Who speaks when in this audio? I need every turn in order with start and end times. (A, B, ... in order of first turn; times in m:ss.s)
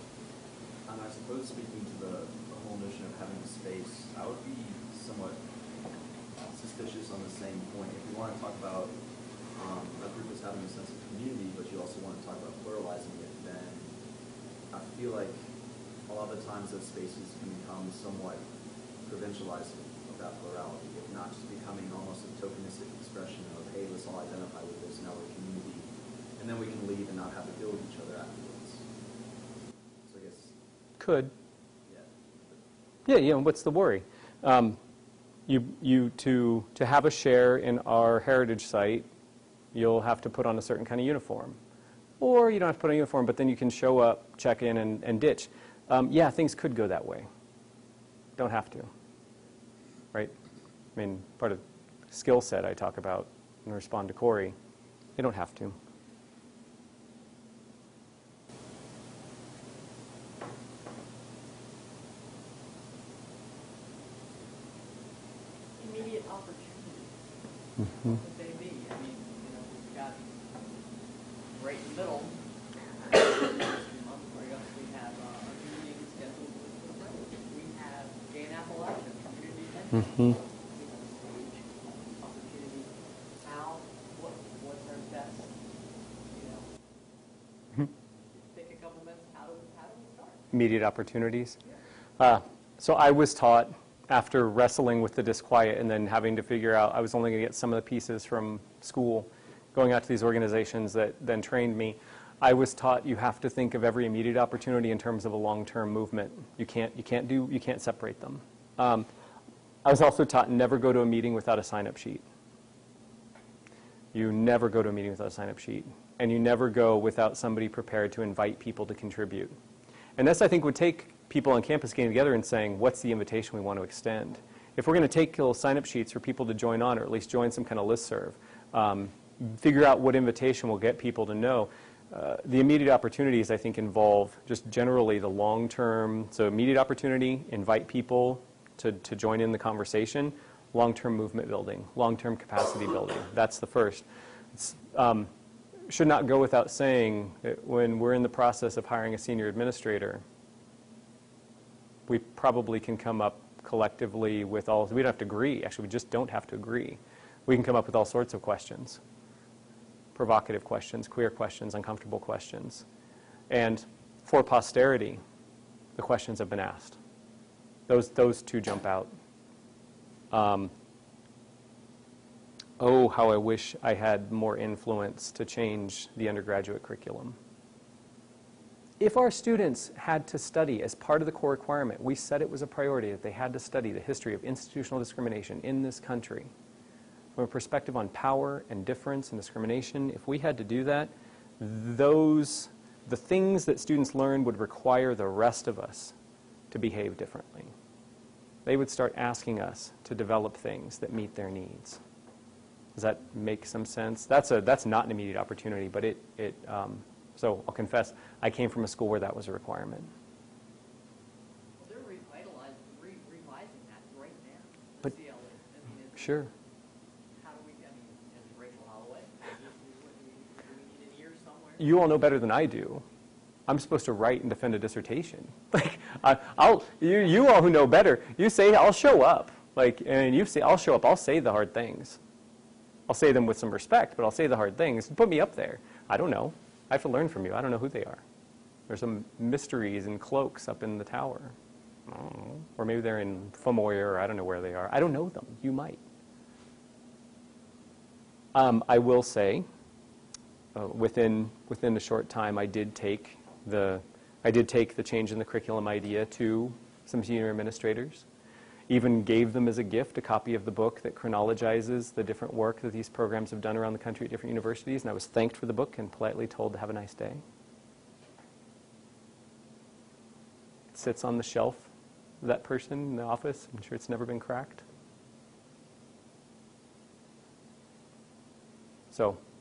0:00.8-0:05.6 A
0:06.4-0:14.0 A
0:14.7-0:28.9 A
0:30.0-0:30.6 A
0:31.0-0:31.3 B
0:31.8-0:32.6 A
0:33.0-0:34.8 B
0:35.5-0:39.1 B
0:39.7-0:41.6 B
0:42.2-0:47.3 B
0:48.4-0:48.9 B
0:51.0-0:54.6 B
0:55.2-0:55.8 B
1:05.8-1:07.2 C
1:07.8-1:08.2 B
1:07.9-1:10.4 C
1:11.5-1:12.4 C
1:13.0-1:21.7 C
1:20.0-1:20.4 B
1:22.2-1:25.5 C
1:26.3-1:26.7 C
1:28.3-1:30.4 C
1:30.5-1:31.6 B
1:32.2-1:49.1 B
1:49.8-1:52.2 B
1:54.1-1:59.5 B
2:00.2-2:25.3 B
2:25.9-2:30.2 B
2:32.1-2:39.0 B
2:40.1-2:42.8 B
2:43.5-2:45.2 B
2:46.0-2:47.0 B
2:47.9-2:49.1 B
2:50.3-2:50.7 B
2:52.8-2:57.4 B
2:59.0-3:06.5 B
3:07.4-3:16.1 B
3:16.7-3:17.7 B
3:18.6-3:22.0 B
3:22.9-3:30.1 B
3:31.8-3:36.5 C
3:36.2-3:36.5 B
3:37.4-3:41.8 C
3:41.8-3:43.0 B
3:43.7-3:52.2 B
3:53.1-3:58.2 B
3:58.9-4:01.5 B
4:02.1-4:06.0 B
4:08.5-4:09.6 B
4:10.7-4:18.2 B
4:18.9-4:27.4 B
4:30.9-4:31.9 B
4:32.4-4:34.8 B
4:39.1-4:39.4 B